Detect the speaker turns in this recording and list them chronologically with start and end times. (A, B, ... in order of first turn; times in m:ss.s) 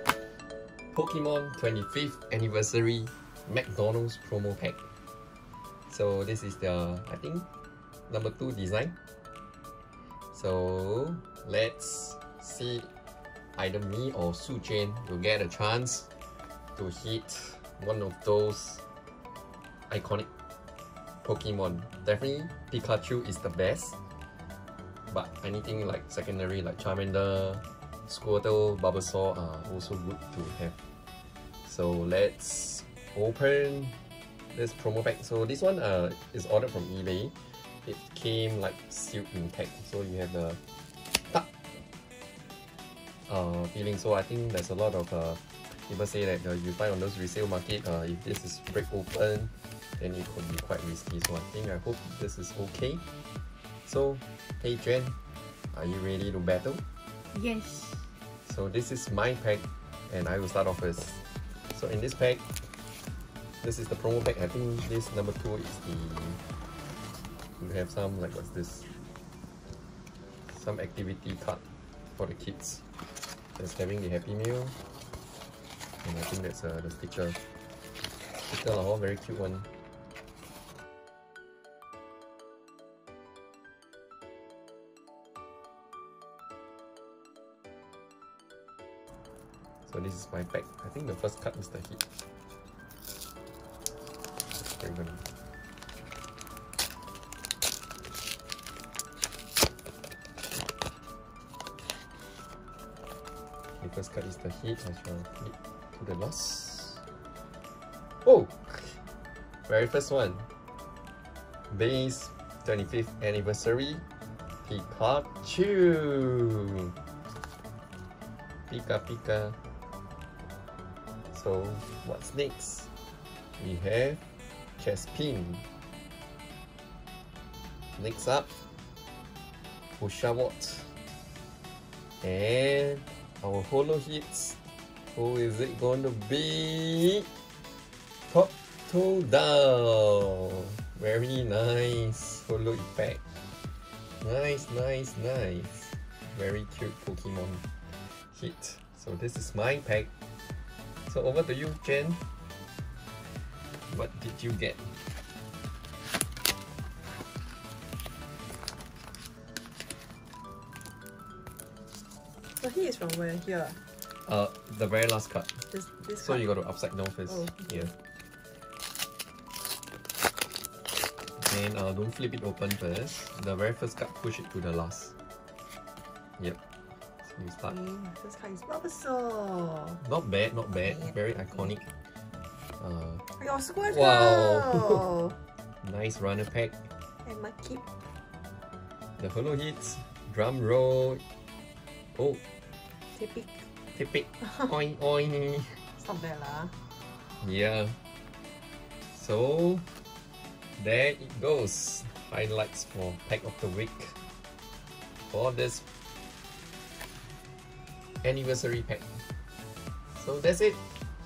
0:00.9-0:04.9 A
0:05.9-0:07.4 A
0:08.1-0:08.9 A
0:10.3-0:12.9 A
0:13.6-0:16.1 A
0:16.8-0:18.8 A
0:19.9-0:20.3 A
0:21.2-0:24.0 A
0:25.1-0:30.7 A
0:31.6-0:34.0 A
0:34.5-0:40.6 A
0:41.2-0:41.8 A
0:43.3-0:53.0 A
0:53.8-0:55.2 A
0:55.7-0:56.8 A
0:57.3-0:58.0 B
0:58.4-1:02.7 A
1:03.6-1:06.4 A
1:07.6-1:08.9 A
1:10.5-1:12.8 A
1:13.6-1:14.8 A
1:16.0-1:17.4 A
1:18.5-1:19.7 A
1:29.8-1:32.0 A
1:34.6-1:35.2 A
1:43.8-1:47.0 A
1:48.2-1:49.0 A
1:49.7-1:50.5 A
1:51.7-1:54.0 A
1:54.6-1:56.6 A
1:58.7-1:59.6 A
2:01.3-2:02.9 A
2:03.6-2:04.2 A
2:04.8-2:05.6 A
2:08.0-2:08.6 A
2:10.0-2:10.9 A
2:12.2-2:17.3 A
2:18.3-2:23.2 A
2:24.2-2:30.1 A
2:31.1-2:32.2 A
2:33.9-2:35.0 A
2:42.5-2:43.8 B
2:44.0-2:47.9 A
2:45.7-2:46.4 B
2:47.3-2:47.9 B
2:51.4-2:55.1 A
2:57.2-2:57.7 A
2:57.6-3:00.0 B
3:00.0-3:01.8 A
3:00.9-3:01.2 B
3:02.8-3:03.2 A
3:03.4-3:05.4 B
3:03.8-3:05.0 A
3:05.8-3:06.9 A
3:07.2-3:07.9 B
3:09.2-3:11.2 A
3:12.1-3:12.4 A
3:13.1-3:13.7 B
3:13.9-3:15.8 A
3:14.4-3:14.7 B
3:16.0-3:16.8 B
3:17.4-3:18.0 A
3:19.1-3:19.9 A
3:20.8-3:24.2 A
3:25.3-3:25.8 A
3:28.2-3:29.2 A
3:30.1-3:30.8 A